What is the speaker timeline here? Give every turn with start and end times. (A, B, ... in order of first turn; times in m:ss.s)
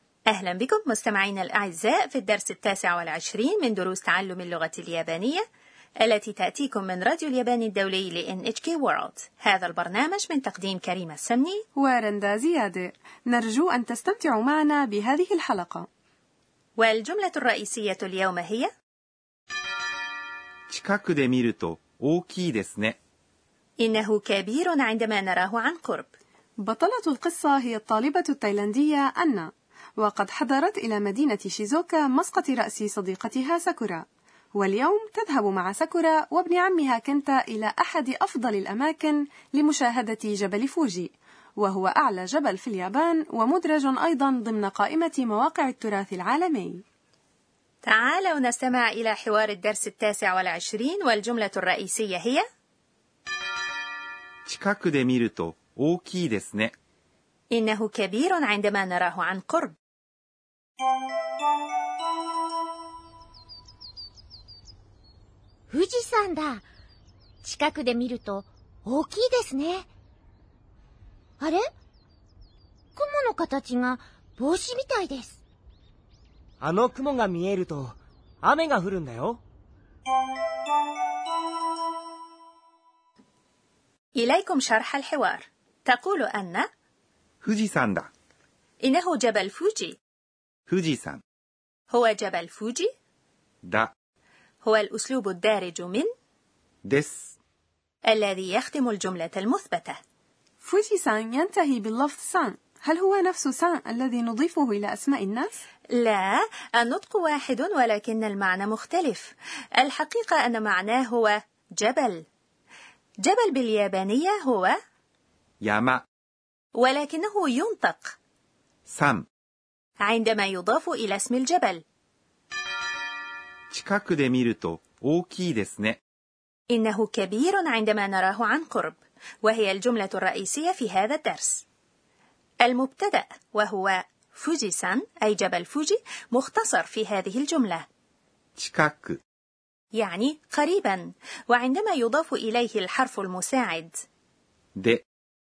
0:00.3-0:05.4 A
0:06.0-0:11.6 A
0:11.8-0:15.9 B
0:16.8-0:18.7 A
0:20.7-0:23.0 C
0:23.8-0:26.1 A
0:26.6-0:34.0 B
0:34.6-0:46.8 B
0:47.8-0:52.4 A
0:54.5-0:56.8 C
0:57.5-0:59.8 A
1:05.7-1:06.6 D
1:07.4-1:09.9 D
1:11.4-1:11.6 D
1:13.0-1:15.4 D
1:16.6-1:19.4 E
1:24.2-1:26.7 A
1:27.4-1:28.1 C
1:28.8-1:30.0 A
1:30.7-1:31.2 C
1:31.9-1:32.9 A
1:33.6-1:33.9 C
1:34.6-1:36.1 A
1:36.8-1:37.3 C
1:38.1-1:40.0 A
1:40.6-1:45.6 B
1:45.9-1:52.2 A
1:53.2-1:54.8 A
1:55.6-1:56.0 C
1:56.8-1:58.2 A
1:58.9-1:59.3 C
2:00.0-2:01.8 A
2:03.7-2:06.0 C
2:06.7-2:11.6 A
2:12.6-2:17.8 A
2:18.6-2:19.2 C
2:20.0-2:23.9 A
2:24.8-2:25.0 C